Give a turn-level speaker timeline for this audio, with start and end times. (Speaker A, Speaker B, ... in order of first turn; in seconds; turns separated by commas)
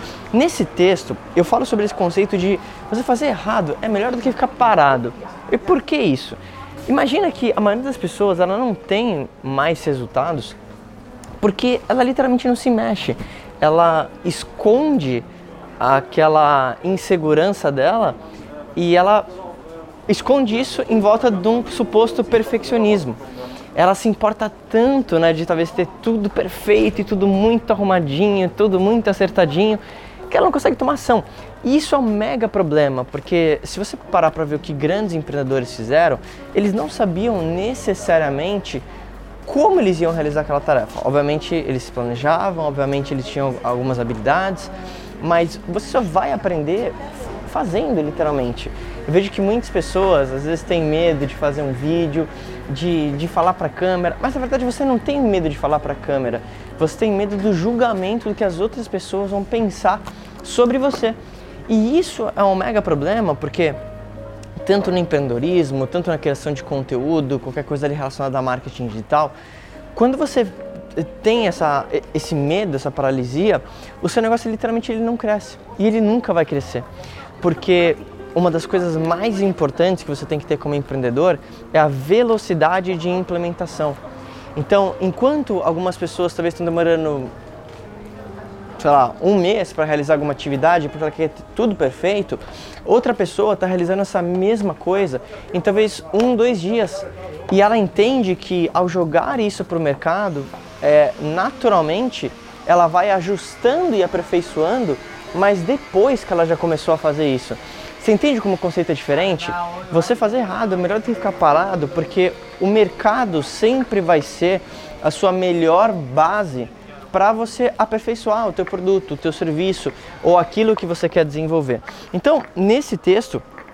Speaker A: 0.3-10.6, Speaker A: 11.4-15.3, Speaker A: 15.8-18.2, Speaker A: 18.7-19.3, Speaker A: 20.1-23.2, Speaker A: 23.8-38.8, Speaker A: 39.5-63.8, Speaker A: 64.6-69.3, Speaker A: 69.9-76.8, Speaker A: 77.4-84.0, Speaker A: 84.5-87.3, Speaker A: 88.8-123.4